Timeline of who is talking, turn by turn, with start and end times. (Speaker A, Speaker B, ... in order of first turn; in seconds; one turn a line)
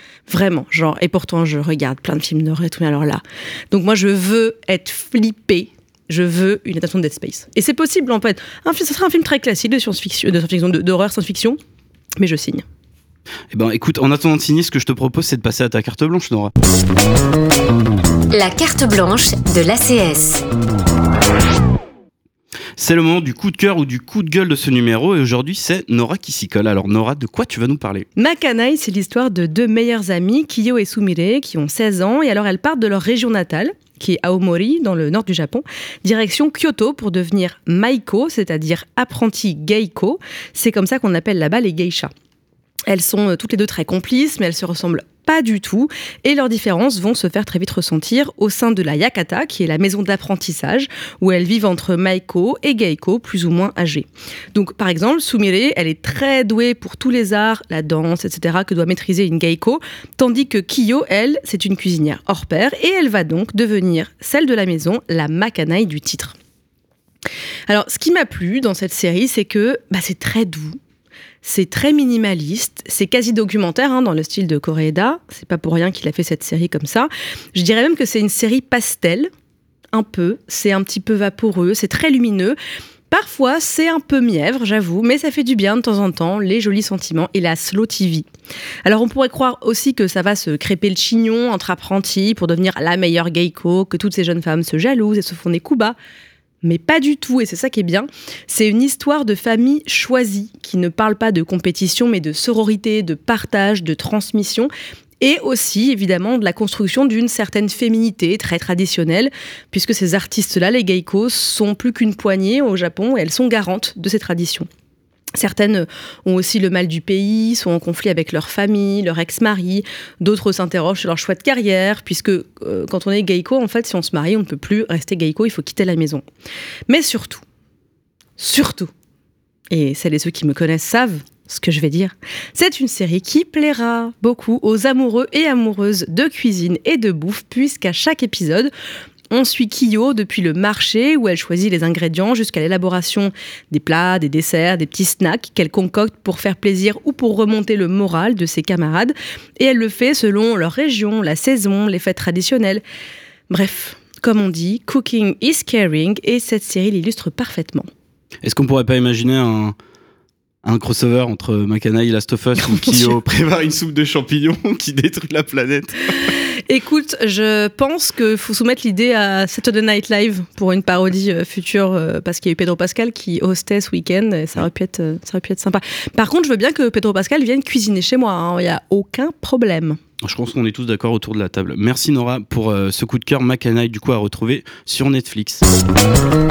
Speaker A: 0.3-11.6
Speaker A: 12.2-12.6
Speaker B: 13.5-16.5
Speaker C: 18.3-20.4
Speaker B: 22.8-28.1
Speaker A: 28.2-42.1
Speaker A: 42.9-66.3
Speaker A: 67.7-70.8
Speaker A: 71.4-79.3
Speaker A: 79.9-82.6
Speaker A: 83.1-88.3
Speaker A: 88.8-96.0
Speaker A: 96.6-104.7
Speaker A: 105.2-114.7
Speaker A: 115.3-126.2
Speaker A: 126.9-127.4
Speaker A: 128.4-128.9
Speaker A: 129.7-138.7
Speaker A: 139.3-152.8
Speaker A: 153.5-157.9
Speaker B: 158.4-159.8
Speaker B: 160.6-166.0
Speaker A: 162.6-163.2
Speaker A: 166.7-180.0
Speaker B: 180.2-185.7